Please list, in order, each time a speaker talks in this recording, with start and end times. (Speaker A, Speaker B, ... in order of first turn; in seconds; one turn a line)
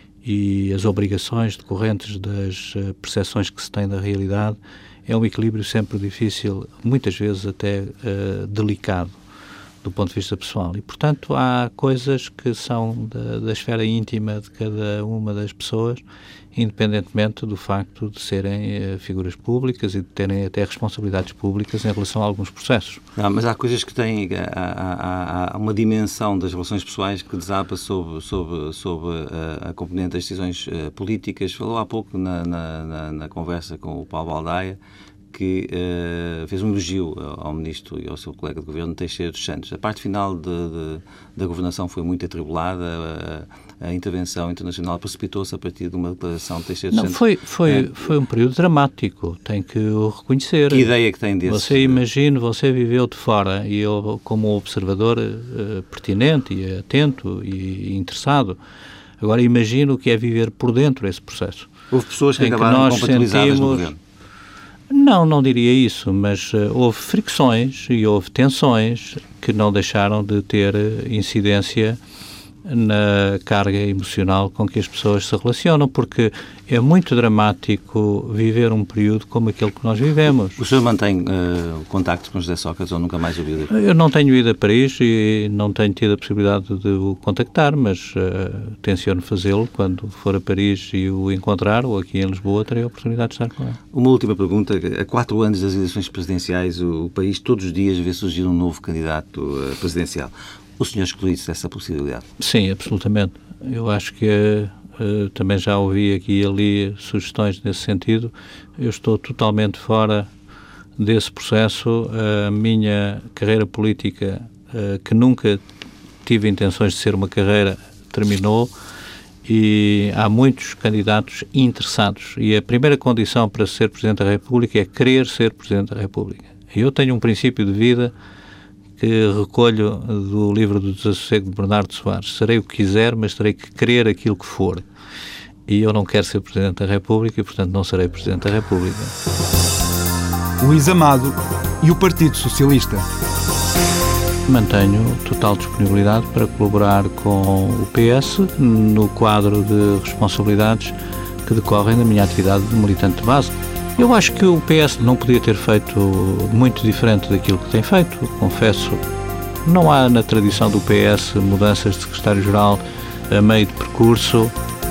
Speaker A: 0.2-9.1
Speaker A: 9.8-16.0
Speaker A: 16.5-23.0
Speaker B: 23.2-34.8
Speaker B: 35.3-47.9
Speaker A: 46.9-50.9
Speaker B: 50.7-52.0
Speaker A: 51.4-58.6
Speaker A: 59.2-61.7
Speaker B: 61.9-64.0
Speaker A: 62.4-63.9
Speaker A: 64.9-72.0
Speaker A: 72.6-80.6
Speaker B: 80.6-83.7
Speaker A: 83.7-93.8
Speaker B: 93.9-102.2
Speaker A: 102.4-110.3
Speaker A: 111.0-115.6
Speaker A: 116.2-118.7
Speaker A: 119.4-128.1
Speaker A: 129.0-134.8
Speaker A: 135.7-139.1
Speaker C: 140.6-143.0
Speaker A: 144.5-159.0
Speaker A: 159.6-164.5